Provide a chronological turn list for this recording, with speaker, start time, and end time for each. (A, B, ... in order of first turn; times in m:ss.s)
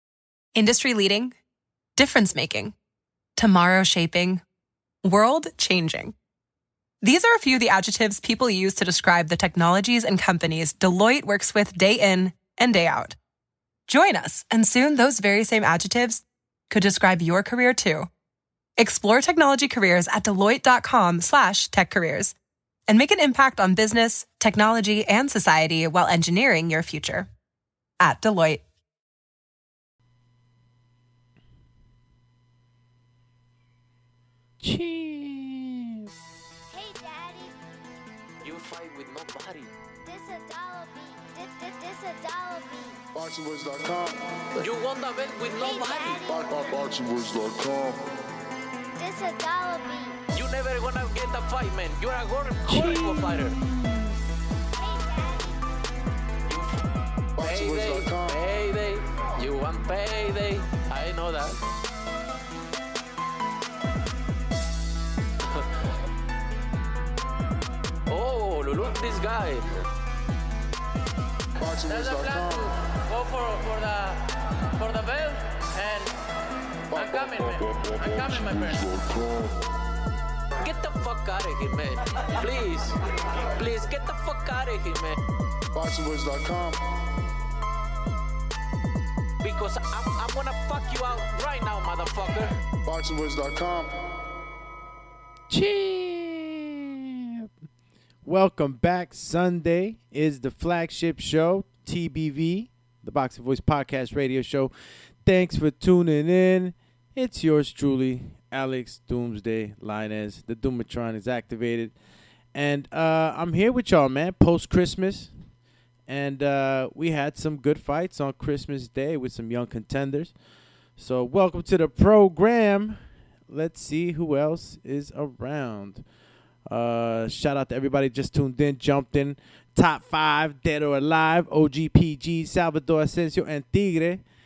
0:00.6-0:01.3 A
0:02.0-0:02.7 A
0:03.4-0:04.4 A
0:05.0-0:06.1 A
0:07.0-0:13.2 A
0:13.9-0:18.1 A
0:18.8-0:22.3 A
0:22.9-0:27.3 A
0:28.0-0:28.6 A
0:34.6-0:36.1 B
0:36.7-0:37.5 C
0:38.4-0:39.7 D
0:40.0-0:43.0 C
0:43.1-0:44.7 E
0:44.6-0:46.2 D
0:45.5-0:46.4 C
0:46.3-0:48.0 E
0:49.0-0:50.2 C
0:50.3-0:53.6 D
0:52.6-0:54.0 B
0:54.8-0:55.5 C
0:56.5-0:56.8 D
0:57.4-0:58.4 E
0:57.4-1:01.5 D
1:08.1-1:09.7 D
1:11.6-1:12.7 E
1:11.8-1:14.2 D
1:14.8-1:16.1 D
1:16.9-1:19.6 E
1:16.9-1:18.9 D
1:20.6-1:25.2 D
1:25.7-1:26.8 E
1:29.4-1:32.5 D
1:32.8-1:33.9 E
1:35.5-1:37.5 B
1:38.2-1:44.7 B
1:45.2-1:51.9 B
1:52.5-1:55.3 B
1:56.1-2:00.3 B
2:01.0-2:06.0 B
2:06.7-2:14.2 B